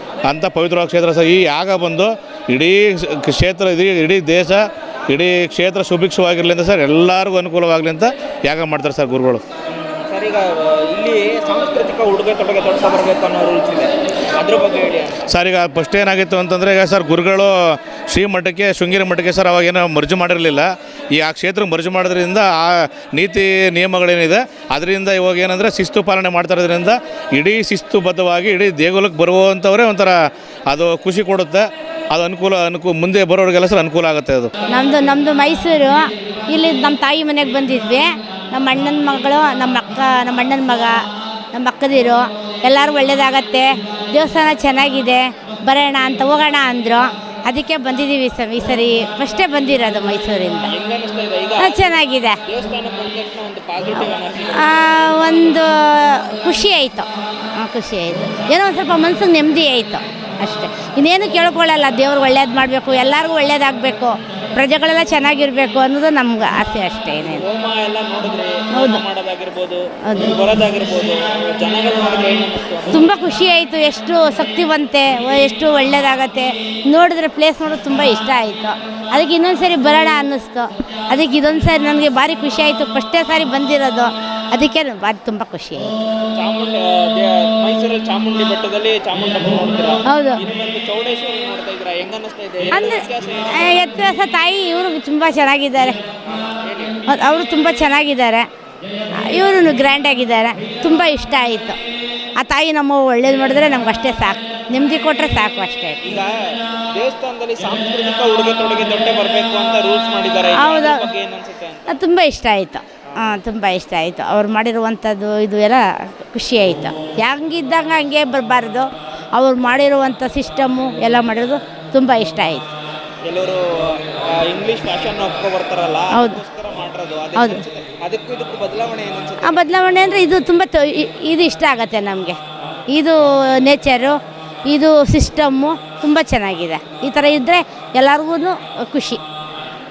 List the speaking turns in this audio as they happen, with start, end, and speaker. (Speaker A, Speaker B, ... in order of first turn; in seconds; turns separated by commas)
Speaker A: 0.2-9.4, Speaker B: 9.7-15.2, Speaker A: 15.2-17.5, Speaker A: 18.1-30.1, Speaker A: 30.7-34.5, Speaker C: 34.7-40.9, Speaker C: 41.5-50.7, Speaker B: 50.7-51.8, Speaker C: 51.6-52.3, Speaker B: 52.5-54.7, Speaker C: 54.5-57.1, Speaker C: 57.6-67.4, Speaker B: 67.2-73.1, Speaker C: 68.7-69.0, Speaker C: 70.1-70.3, Speaker C: 72.9-85.9, Speaker B: 86.3-93.8, Speaker C: 90.1-90.4, Speaker C: 92.7-96.0, Speaker B: 96.2-97.0, Speaker C: 97.1-98.5, Speaker C: 99.2-101.8, Speaker C: 102.4-106.0, Speaker B: 106.0-106.3, Speaker B: 106.9-112.0, Speaker C: 110.5-111.1, Speaker C: 111.9-122.7, Speaker B: 123.3-129.6, Speaker C: 126.1-126.4, Speaker C: 127.3-127.6, Speaker C: 129.4-132.4, Speaker C: 132.9-139.2